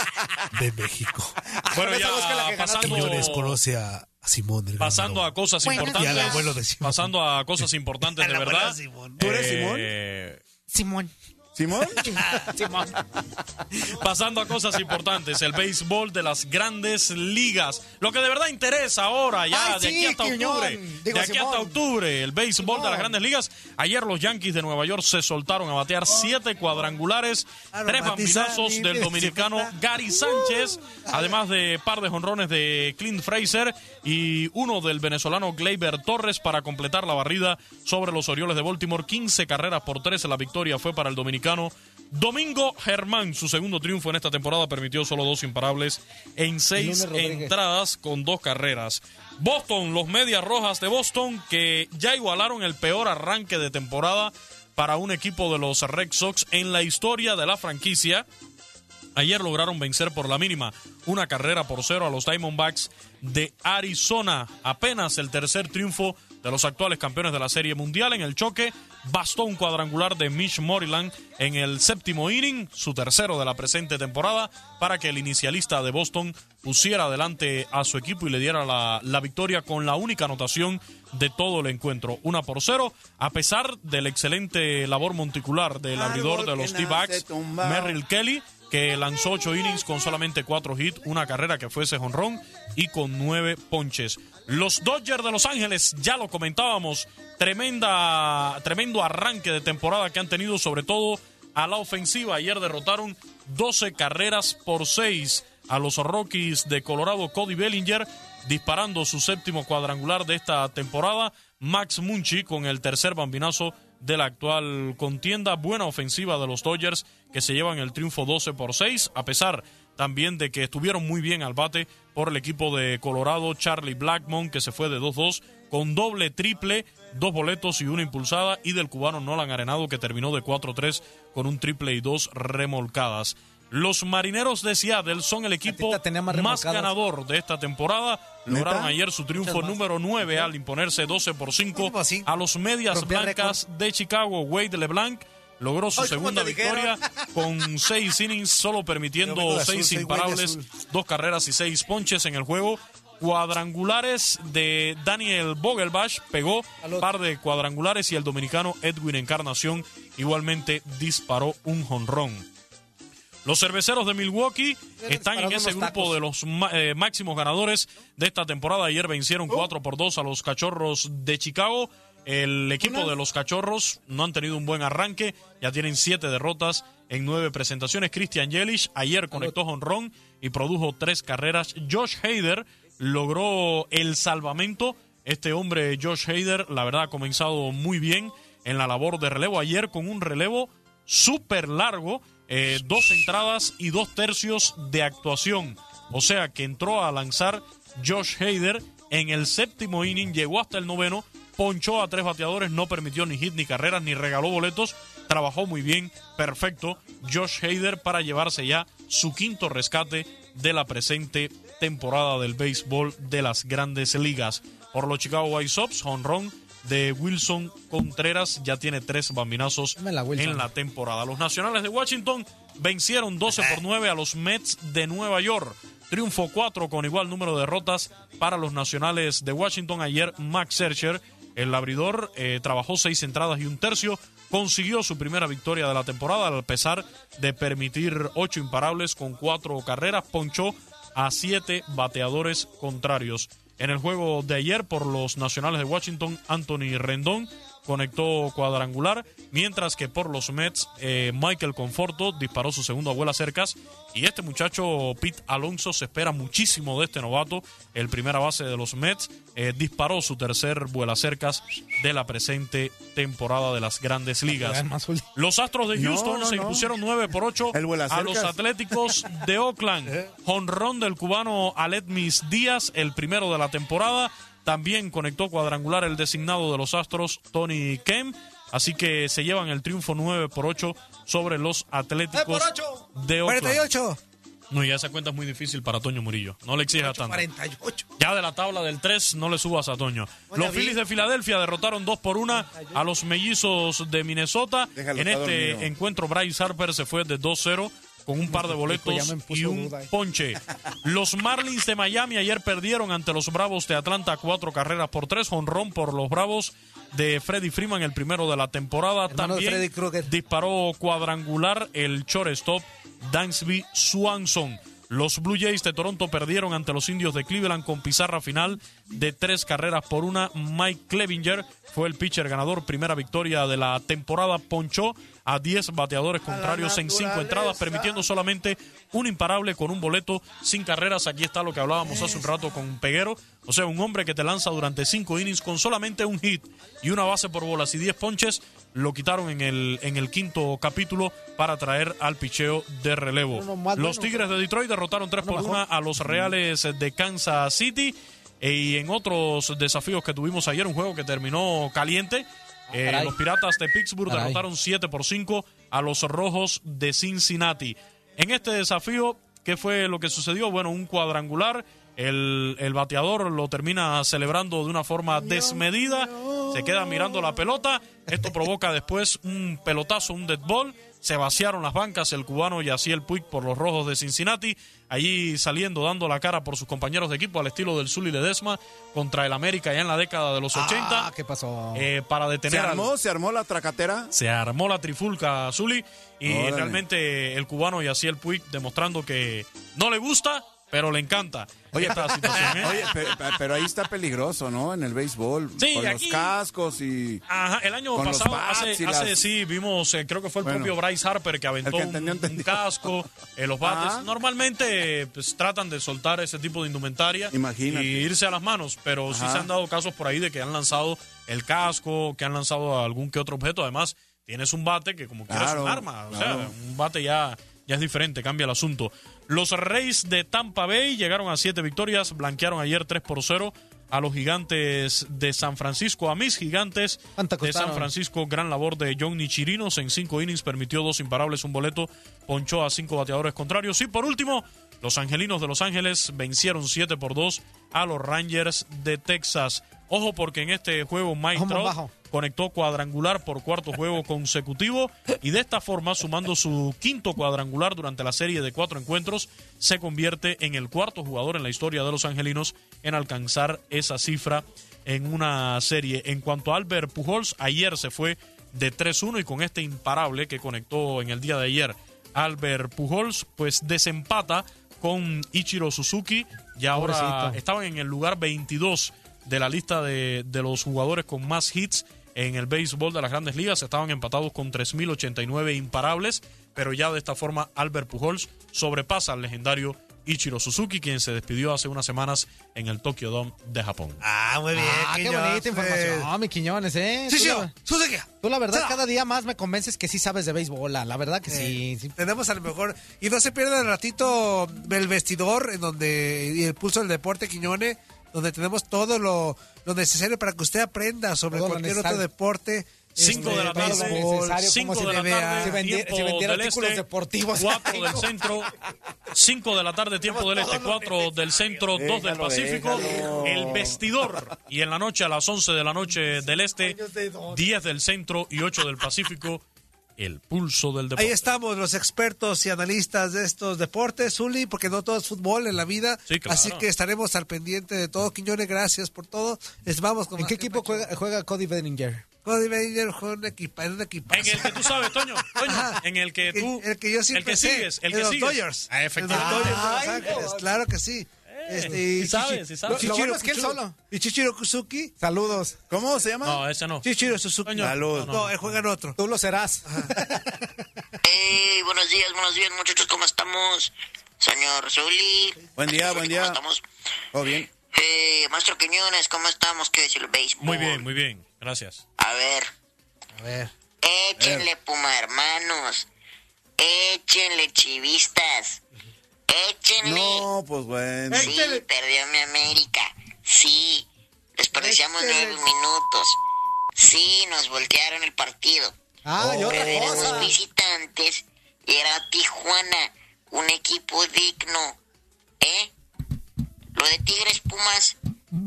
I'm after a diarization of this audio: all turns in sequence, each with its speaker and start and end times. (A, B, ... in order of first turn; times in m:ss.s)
0:00.5-0:01.4 A
0:01.6-0:03.4 B
0:01.7-0:03.6 C
0:02.8-0:07.1 A
0:04.8-0:10.4 C
0:05.6-0:06.5 B
0:08.1-0:09.2 A
0:09.2-0:09.9 D
0:10.7-0:11.1 B
0:11.5-0:12.0 D
0:12.0-0:13.0 B
0:12.2-0:12.5 A
0:14.0-0:58.2 C
0:19.5-0:21.8 B
0:22.6-0:23.1 B
0:27.7-0:29.7 A
0:30.9-0:31.3 A
0:46.8-0:47.5 B
0:59.2-2:42.4 C
1:25.9-1:28.0 D
2:15.7-2:16.9 B
2:18.5-2:19.0 D
2:19.3-2:20.5 B
2:21.7-2:22.3 A
2:22.9-2:23.6 B
2:26.0-2:27.0 B
2:29.2-2:30.7 A
2:43.4-4:24.8 C
2:45.0-2:46.2 B
3:40.0-3:40.7 B
3:43.5-3:43.8 A
4:24.5-4:25.2 B
4:25.3-4:43.8 C
4:25.9-4:26.9 D
4:27.7-4:28.5 D
4:42.3-4:43.1 B
4:43.4-4:44.2 A
4:44.7-4:47.4 C
4:46.9-4:48.0 B
4:48.2-6:21.3 C
4:50.5-4:51.0 B
4:52.5-4:53.0 B
4:54.9-4:55.9 D
4:58.5-5:00.1 B
5:09.3-5:10.3 B
5:26.5-5:28.2 D
5:32.0-5:32.5 B
5:43.5-5:44.6 B
5:45.4-5:45.8 B
5:52.9-5:53.3 B
5:54.3-5:54.6 B
6:20.7-6:22.1 B
6:21.9-6:23.1 C
6:22.7-6:24.3 D
6:24.3-6:33.0 C
6:26.4-6:27.0 D
6:31.9-6:37.4 D
6:32.0-6:33.0 B
6:35.8-6:36.5 C
6:37.5-8:04.2 C
6:38.2-6:39.4 D
6:40.6-6:40.9 D
6:41.8-6:42.7 D
6:43.8-6:44.2 D
6:47.5-6:48.2 D
6:49.3-6:49.7 D
6:55.5-6:56.7 D
7:07.4-7:08.1 B
7:21.5-7:22.1 B
7:46.9-7:47.6 B
8:04.2-8:06.3 A
8:04.7-8:07.7 B
8:07.3-8:09.0 A
8:08.4-8:12.1 B
8:11.5-8:25.8 A
8:21.5-8:22.2 B
8:23.2-8:27.0 C
8:23.2-8:28.5 B
8:27.6-8:28.7 C
8:29.3-8:37.0 C
8:30.5-8:31.1 A
8:30.6-8:30.9 B
8:32.0-8:34.0 D
8:36.4-8:37.6 B
8:37.5-8:39.6 C
8:40.2-8:41.5 C
8:41.2-8:51.1 A
8:46.3-8:46.8 C
8:50.4-8:52.2 B
8:52.4-8:55.0 A
8:54.3-9:00.3 C
8:55.6-9:05.1 A
8:58.9-9:00.6 B
9:01.5-9:03.1 C
9:02.9-9:04.0 B
9:05.2-9:05.8 B
9:05.9-9:06.6 D
9:06.4-9:07.1 C
9:07.0-9:09.2 A
9:07.6-9:08.8 C
9:07.8-9:08.3 D
9:09.2-9:10.6 B
9:11.2-9:16.8 E
9:15.8-9:16.6 D
9:17.3-9:17.7 D
9:17.9-9:21.1 E
9:20.6-9:22.0 C
9:22.2-9:22.7 E
9:23.4-9:23.7 A
9:24.0-9:26.1 E
9:24.4-9:24.7 D
9:26.8-9:28.8 E
9:29.5-9:30.5 E
9:30.0-9:31.5 D
9:31.3-9:31.8 A
9:31.3-9:36.4 E
9:34.7-9:35.6 A
9:37.0-9:38.9 E
9:39.2-9:40.6 B
9:39.4-9:39.8 D
9:39.6-9:45.0 E
9:45.6-9:45.9 E
9:46.9-9:48.2 E